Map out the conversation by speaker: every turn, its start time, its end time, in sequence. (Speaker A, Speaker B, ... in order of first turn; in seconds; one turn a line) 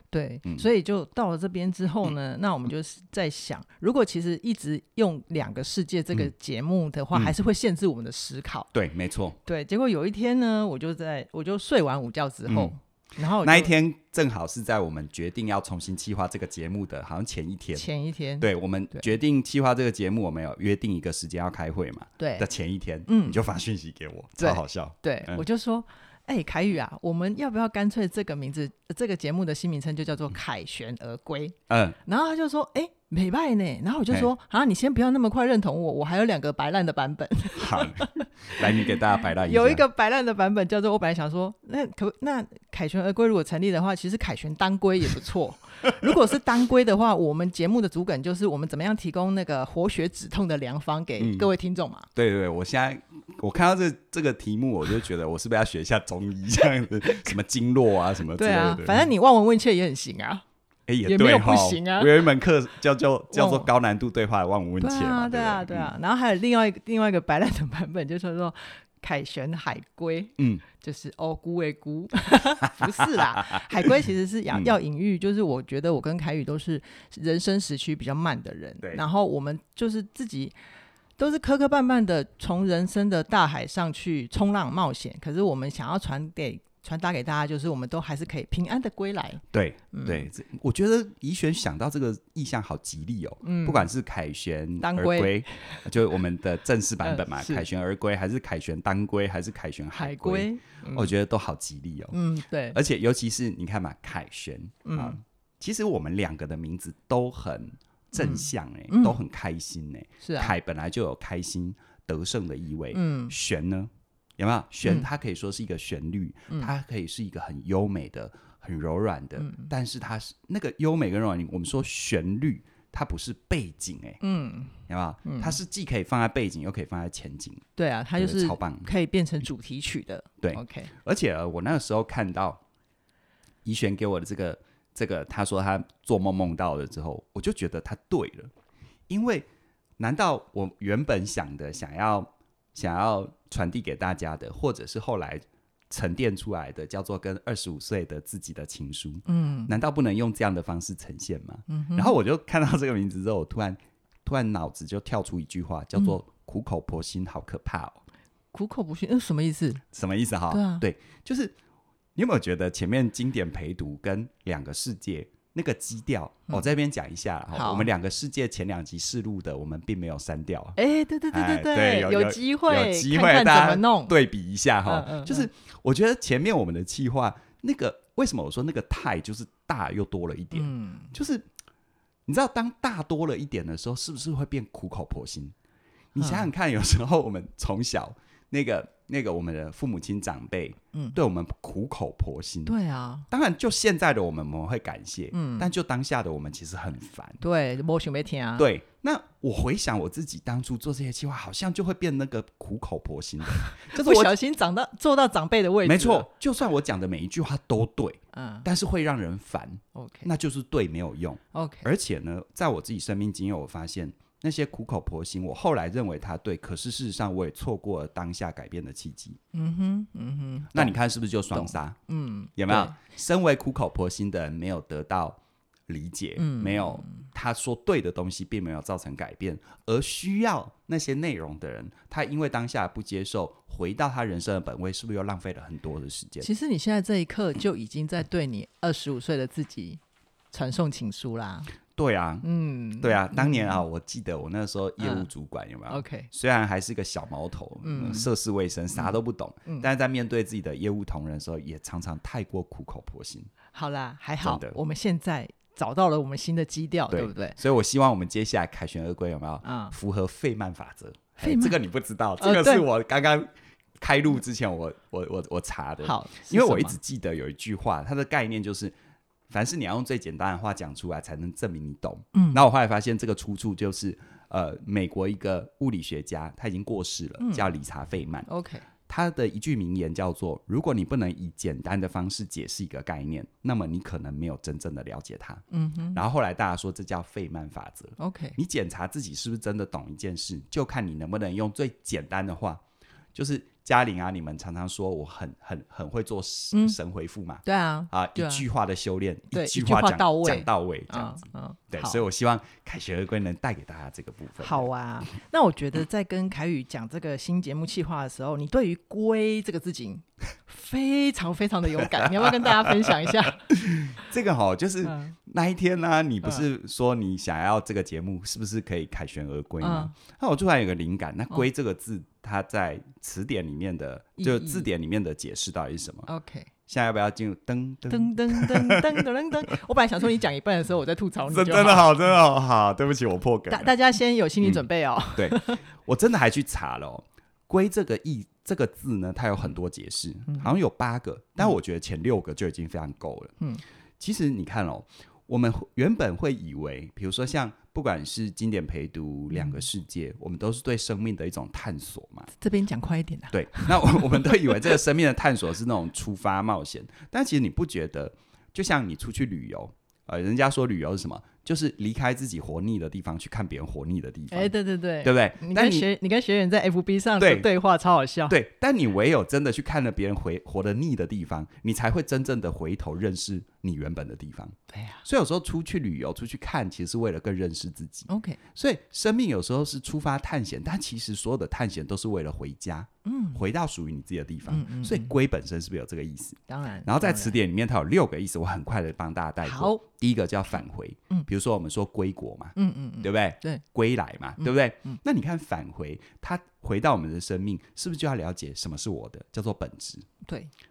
Speaker A: 0.1-8.7
Speaker B: 8.7-9.4
Speaker A: 9.4-13.7
Speaker B: 12.5-12.7
Speaker B: 13.4-17.9
Speaker A: 17.7-19.1
Speaker B: 18.4-25.4
Speaker A: 22.2-22.5
Speaker A: 23.1-23.4
Speaker A: 24.4-52.1
Speaker B: 31.7-32.0
Speaker B: 37.6-39.8
Speaker B: 51.2-51.5
Speaker B: 52.1-59.1
Speaker A: 58.3-60.4
Speaker B: 60.9-65.9
Speaker A: 61.0-62.3
Speaker A: 63.3-63.7
Speaker A: 64.8-80.5
Speaker B: 70.4-70.6
Speaker B: 72.8-73.6
Speaker A: 81.2-90.3
Speaker B: 89.5-102.2
Speaker A: 93.4-93.9
Speaker A: 94.8-95.8
Speaker A: 97.0-97.7
Speaker A: 100.0-101.1
Speaker A: 102.1-102.8
Speaker B: 102.7-124.2
Speaker A: 104.8-105.2
Speaker A: 108.2-109.2
Speaker A: 110.2-110.5
Speaker A: 112.9-113.3
Speaker A: 119.4-119.7
Speaker A: 124.2-125.6
Speaker B: 124.9-127.7
Speaker A: 127.8-130.9
Speaker B: 128.2-128.9
Speaker B: 130.4-132.6
Speaker B: 133.6-138.5
Speaker B: 139.1-139.5
Speaker B: 140.0-158.0
Speaker A: 149.3-149.7
Speaker A: 151.7-152.2
Speaker A: 158.5-159.8
Speaker B: 159.9-161.6
Speaker A: 160.5-160.8
Speaker B: 162.2-170.8
Speaker A: 167.5-167.9
Speaker A: 170.8-174.2
Speaker B: 171.3-181.5
Speaker A: 174.9-175.5
Speaker A: 180.5-181.1
Speaker B: 182.3-185.6
Speaker B: 186.2-192.8
Speaker A: 186.2-186.5
Speaker A: 192.7-193.3
Speaker B: 193.3-197.4
Speaker A: 195.3-195.7
Speaker A: 197.4-198.7
Speaker B: 198.6-204.3
Speaker A: 203.6-206.3
Speaker B: 205.8-219.4
Speaker A: 208.3-208.7
Speaker A: 209.9-210.3
Speaker A: 211.5-211.9
Speaker A: 219.5-221.0
Speaker B: 220.7-222.0
Speaker A: 221.5-223.0
Speaker B: 222.6-236.5
Speaker A: 226.4-227.2
Speaker A: 236.4-240.0
Speaker A: 240.5-241.7
Speaker B: 241.9-242.5
Speaker A: 242.4-243.8
Speaker B: 243.0-253.5
Speaker A: 245.0-245.3
Speaker A: 245.9-246.3
Speaker A: 247.8-248.3
Speaker A: 248.9-249.9
Speaker A: 253.7-257.6
Speaker B: 254.4-254.8
Speaker B: 257.1-268.9
Speaker A: 259.6-259.9
Speaker A: 261.4-261.8
Speaker A: 262.4-262.9
Speaker A: 266.0-267.0
Speaker B: 269.5-278.5
Speaker A: 272.3-272.6
Speaker A: 277.4-277.7
Speaker A: 278.5-278.9
Speaker B: 279.1-285.6
Speaker A: 285.7-286.2
Speaker B: 286.1-292.8
Speaker A: 288.2-288.6
Speaker B: 293.4-304.9
Speaker A: 297.6-298.6
Speaker A: 299.5-302.2
Speaker A: 304.6-314.3
Speaker B: 311.9-326.3
Speaker A: 315.1-315.4
Speaker A: 319.8-320.1
Speaker A: 324.4-324.9
Speaker A: 326.3-326.7
Speaker B: 326.9-329.3
Speaker A: 328.1-332.2
Speaker B: 331.5-333.9
Speaker A: 333.7-335.8
Speaker B: 335.4-343.5
Speaker B: 344.2-352.5
Speaker A: 352.6-354.9
Speaker B: 353.5-366.1
Speaker A: 364.5-368.6
Speaker B: 367.4-367.7
Speaker B: 368.5-400.2
Speaker A: 374.9-375.2
Speaker A: 378.3-378.6
Speaker A: 383.2-383.6
Speaker A: 384.7-385.3
Speaker A: 386.7-387.6
Speaker A: 389.6-390.0
Speaker A: 392.8-393.8
Speaker A: 394.6-395.2